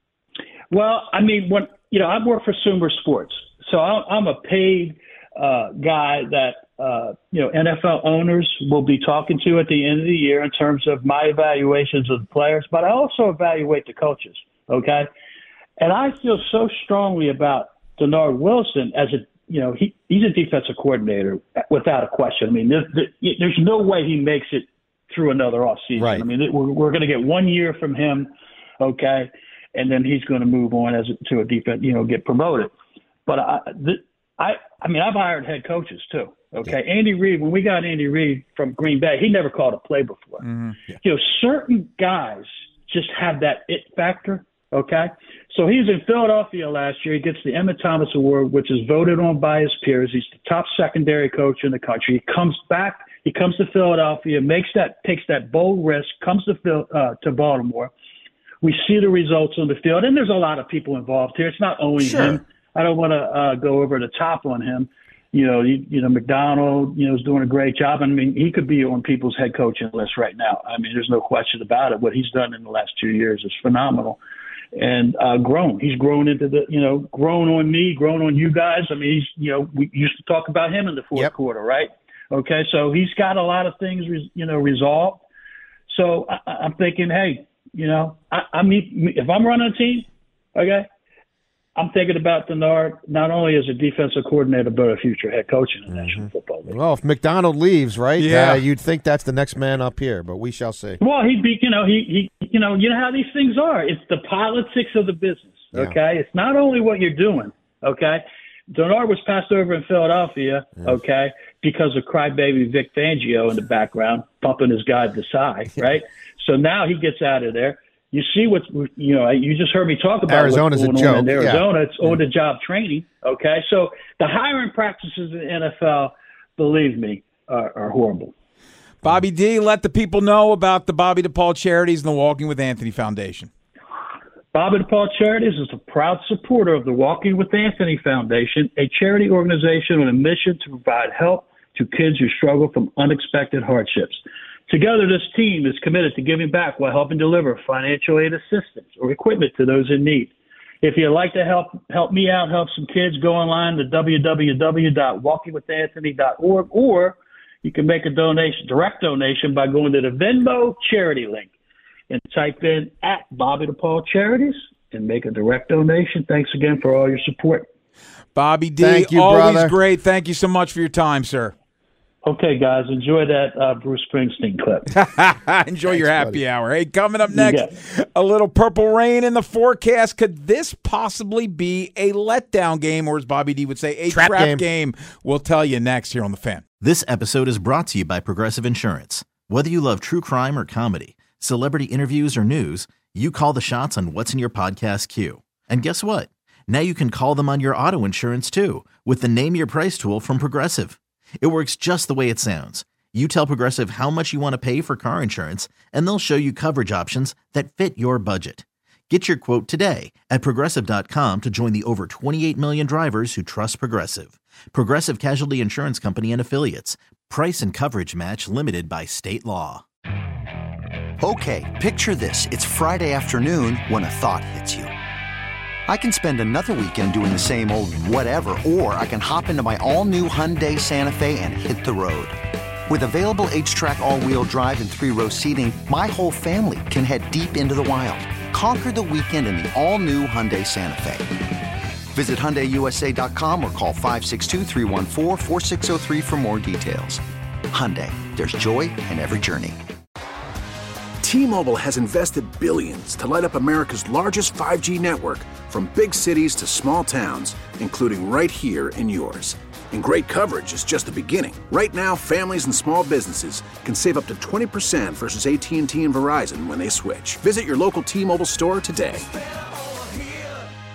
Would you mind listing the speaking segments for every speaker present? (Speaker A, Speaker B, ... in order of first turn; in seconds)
Speaker A: 0.7-15.1, 15.8-32.7, 33.3-40.5, 41.0-57.9, 58.6-74.2, 74.7-85.2, 85.9-90.9, 91.8-96.7, 101.0-128.3, 134.5-161.5, 162.1-167.7, 172.2-174.9, 177.3-177.7
Speaker B: 25.9-26.3, 62.1-62.4, 95.9-101.0, 120.3-121.7, 168.8-169.7, 175.9-176.4, 184.1-184.6
Speaker C: 40.5-40.7, 98.2-98.6, 129.0-133.5, 168.3-171.5, 174.9-186.6
Speaker D: 186.8-219.8
Speaker E: 221.2-224.9, 225.9-232.3, 232.9-241.3, 242.1-249.8
Speaker F: 251.2-269.3